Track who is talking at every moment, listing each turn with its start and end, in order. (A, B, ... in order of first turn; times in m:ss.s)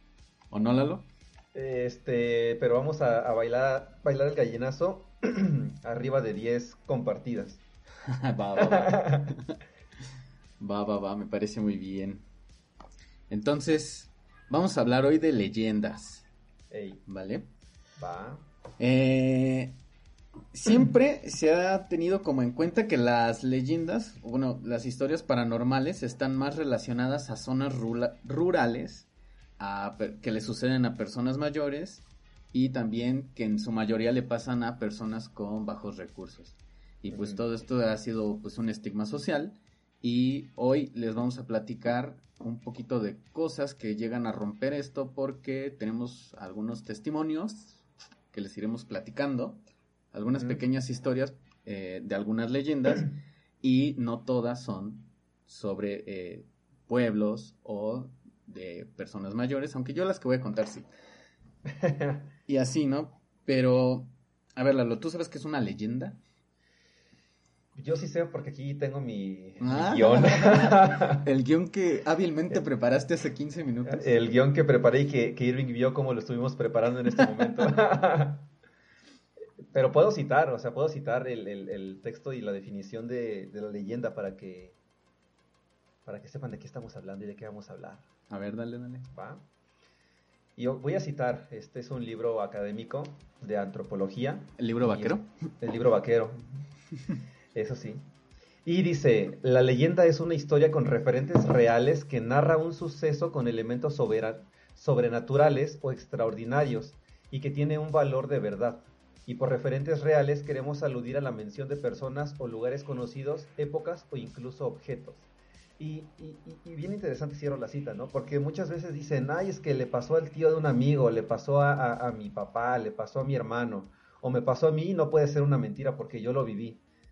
0:00.5-0:01.1 A
0:01.5-0:07.6 B
0:08.1-0:09.6 A
0:08.6-0:09.4 B
0:10.6-0:12.2 A
0:13.3-0:16.3 A
0:16.7-0:17.0 B
0:17.1-0:17.5 A
0:18.0-0:18.5 B
0:18.8-0:19.8 A
0:20.5-0:29.1 A
0:29.6-0:49.6 A
0:37.1-0:37.4 B
0:50.1-1:00.9 A
0:50.4-0:50.6 B
1:01.7-1:02.3 B
1:02.5-1:06.2 A
1:07.8-1:11.3 B
1:09.6-1:14.1 A
1:13.9-1:18.5 B
1:19.7-1:24.8 B
1:26.0-1:28.1 B
1:28.3-1:29.1 A
1:29.1-1:29.5 B
1:30.6-1:36.4 B
1:34.6-1:35.3 A
1:37.5-1:38.1 B
1:38.6-2:06.8 B